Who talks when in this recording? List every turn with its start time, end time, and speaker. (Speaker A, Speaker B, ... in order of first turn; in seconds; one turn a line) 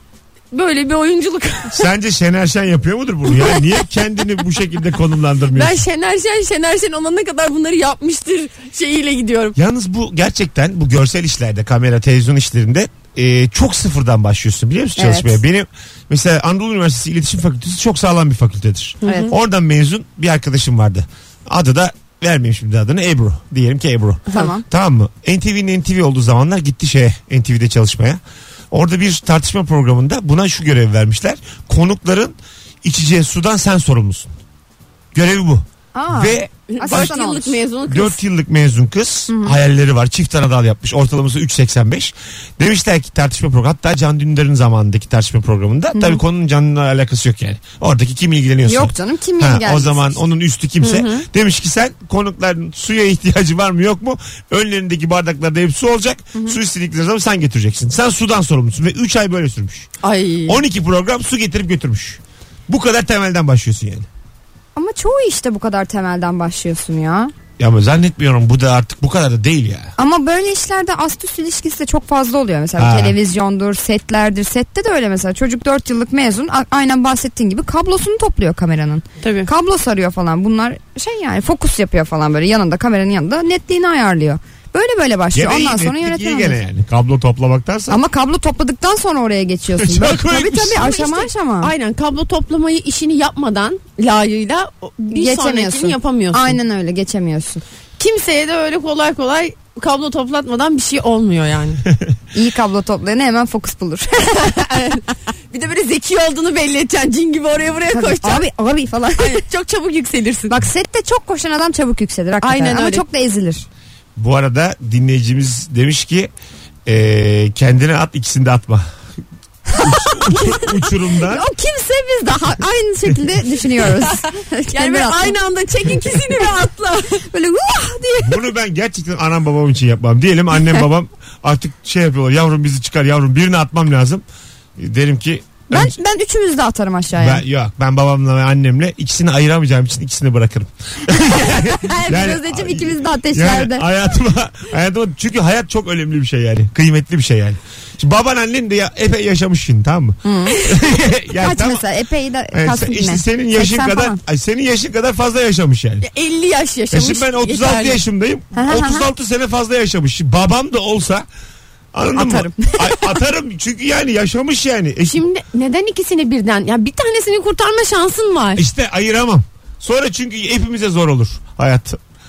Speaker A: 0.5-1.9
Speaker B: 1.7-5.8
Speaker A: 5.5-9.6
Speaker B: 9.6-28.2
Speaker C: 15.0-15.4
Speaker A: 19.0-19.3
Speaker C: 19.0-19.3
Speaker C: 24.3-24.6
Speaker B: 28.7-34.3
Speaker B: 35.1-37.1
Speaker C: 36.0-37.6
Speaker A: 36.7-38.2
Speaker B: 37.9-59.9
Speaker C: 39.3-39.6
Speaker C: 45.9-46.2
Speaker C: 48.7-50.2
Speaker A: 50.8-51.3
Speaker A: 60.0-60.6
Speaker B: 60.5-64.1
Speaker C: 64.8-67.3
Speaker B: 67.6-69.9
Speaker C: 70.0-86.6
Speaker B: 72.8-73.2
Speaker A: 79.2-79.5
Speaker B: 85.3-88.0
Speaker C: 87.9-91.7
Speaker B: 89.7-90.9
Speaker A: 90.8-96.6
Speaker C: 95.1-97.6
Speaker A: 98.0-101.8
Speaker C: 102.3-104.6
Speaker A: 104.4-108.5
Speaker C: 107.9-109.4
Speaker A: 109.2-110.6
Speaker C: 110.5-113.7
Speaker A: 112.4-113.0
Speaker B: 114.2-116.3
Speaker B: 116.9-118.9
Speaker B: 119.8-121.5
Speaker C: 121.2-125.4
Speaker A: 124.7-127.2
Speaker C: 126.2-126.5
Speaker C: 127.3-128.4
Speaker B: 128.2-134.2
Speaker B: 134.8-136.0
Speaker C: 135.7-137.4
Speaker B: 137.2-151.8
Speaker A: 141.4-142.4
Speaker C: 141.9-143.9
Speaker C: 150.2-150.6
Speaker C: 151.3-154.2
Speaker B: 152.5-156.1
Speaker A: 156.0-158.0
Speaker B: 156.9-161.2
Speaker C: 158.5-159.1
Speaker B: 161.9-165.2
Speaker C: 162.1-163.0
Speaker A: 165.0-168.6
Speaker B: 168.6-172.0